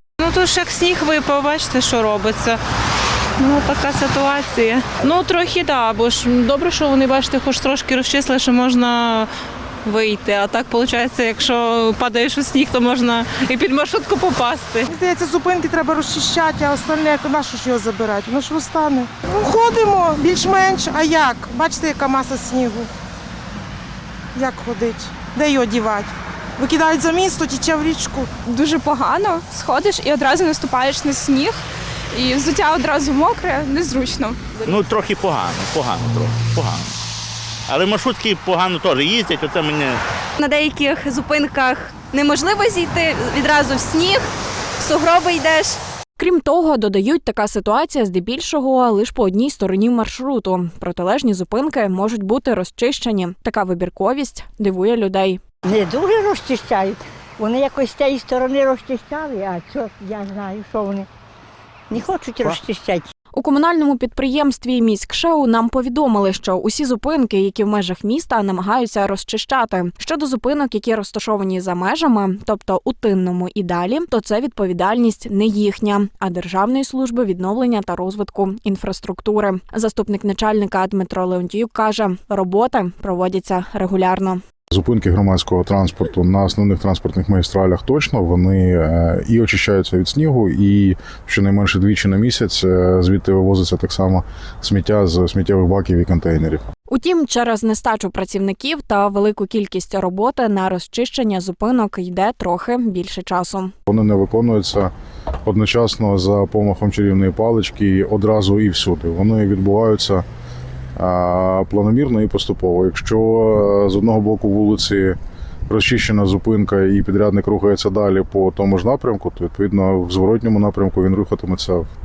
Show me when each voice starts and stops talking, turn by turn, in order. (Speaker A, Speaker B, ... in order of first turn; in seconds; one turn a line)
Speaker A: 0.2-2.6
Speaker A: 3.4-9.3
Speaker A: 9.8-14.9
Speaker B: 14.9-22.9
Speaker B: 24.4-28.3
Speaker C: 28.5-31.6
Speaker C: 32.1-34.8
Speaker D: 34.7-36.9
Speaker D: 37.7-39.9
Speaker E: 40.4-44.3
Speaker E: 44.8-45.8
Speaker F: 46.2-55.4
Speaker G: 55.7-61.1
Speaker G: 61.9-63.1
Speaker F: 63.3-84.4
Speaker H: 84.7-96.6
Speaker F: 96.9-103.7
Speaker H: 103.9-104.9
Speaker H: 105.5-110.2
Speaker H: 111.0-115.2
Speaker H: 115.7-121.9